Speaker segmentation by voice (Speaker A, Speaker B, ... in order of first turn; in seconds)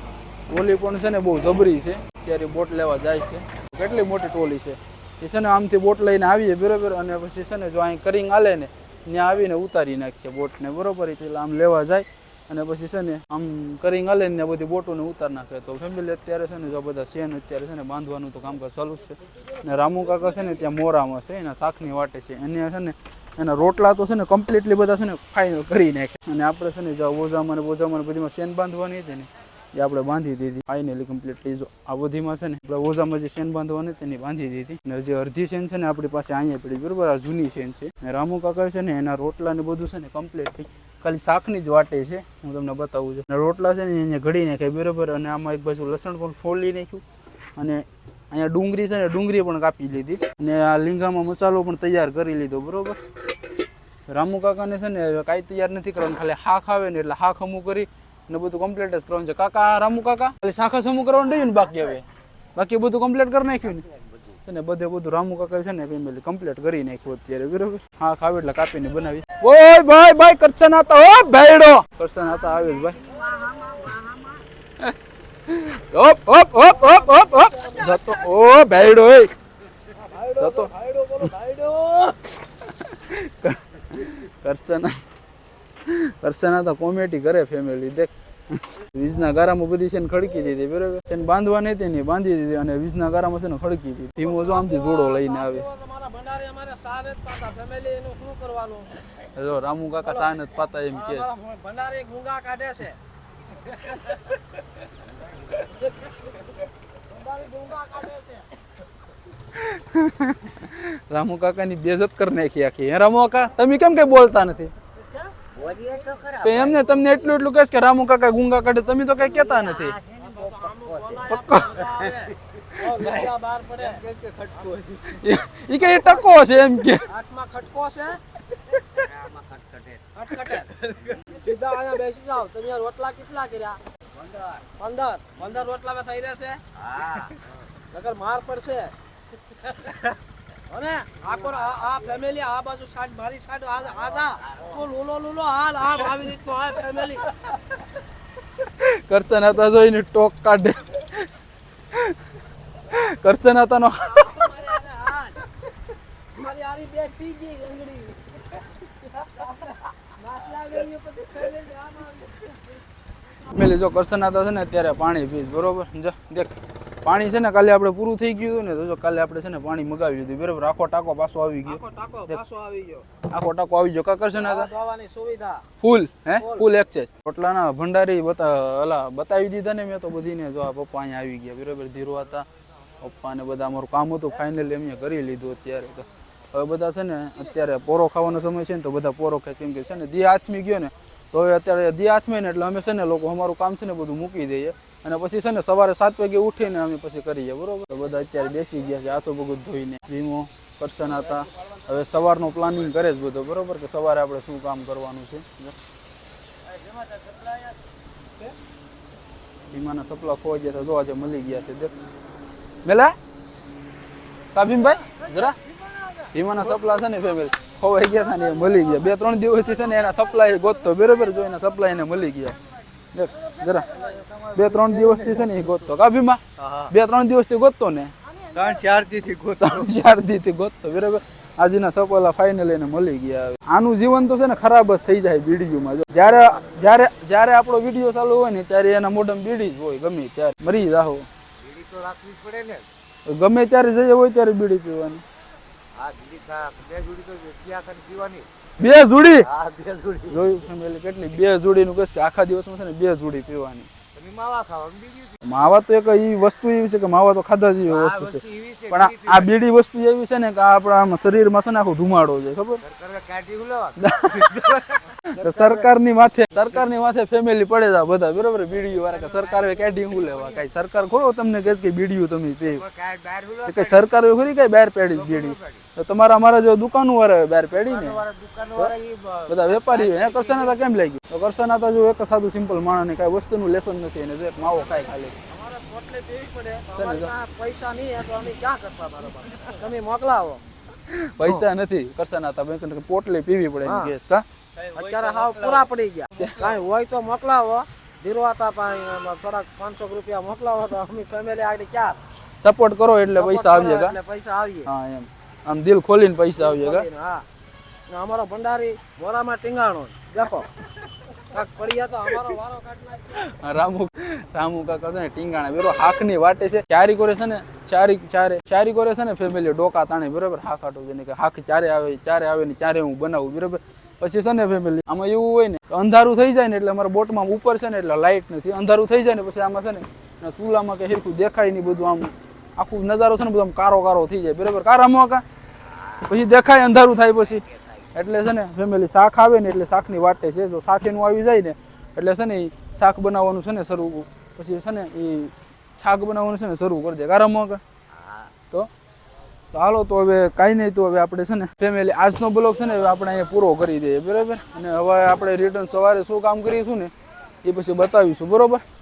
Speaker A: 0.5-47.0, 47.5-53.0, 54.1-62.0, 62.5-63.9, 64.5-74.2, 75.5-79.3, 80.4-80.7, 82.4-84.9, 85.8-95.7, 99.3-101.3, 109.5-114.7, 116.4-120.0, 121.3-121.8, 125.1-127.1, 148.6-151.3, 151.9-154.7, 163.5-172.4, 173.3-174.7, 175.8-182.4, 183.0-205.7, 209.7-211.9, 212.8-213.1, 214.5-215.6, 216.3-222.6, 223.1-223.9, 224.5-228.1, 229.6-241.3, 243.2-245.2, 248.8-249.5, 250.3-253.9, 255.4-262.8, 264.0-272.8, 273.6-278.2, 279.5-285.3, 286.9-287.3, 291.1-294.4, 296.4-296.7, 302.6-304.1, 304.9-307.1, 313.3-335.4, 336.2-337.6, 338.1-347.8, 349.7-357.1, 357.6-358.8
Speaker B: 63.9-64.4, 115.4-117.0, 119.4-121.2, 121.8-122.3, 123.8-125.2, 128.9-130.1, 130.8-131.2, 134.2-134.6, 136.8-137.4, 144.4-144.8, 206.7-207.7, 215.2-216.3, 223.8-225.8, 226.6-226.9, 228.5-229.8, 241.6-242.9, 245.9-248.5, 249.4-250.5, 254.1-255.4, 257.9-259.5, 262.8-265.2, 269.1-270.6, 272.7-273.9, 275.1-275.8, 277.8-280.8, 294.8-295.8, 348.1-348.5
Speaker C: 73.0-74.3, 76.6-78.0, 79.9-82.2, 94.2-98.9, 100.0-100.4, 100.9-103.0, 103.7-104.2, 105.6-106.2, 107.1-108.5, 120.2-124.0, 125.7-126.4, 127.0-128.2, 130.1-133.8, 134.8-136.6, 137.9-138.9, 139.7-140.0, 140.7-147.3, 154.1-155.4, 156.3-162.6, 171.7-173.1, 174.3-175.6, 176.4-176.7, 223.4-224.0, 228.3-228.9, 285.5-290.6, 293.8-294.1, 294.9-302.2, 303.4-304.9, 306.6-307.4, 308.1-310.7, 311.4-313.4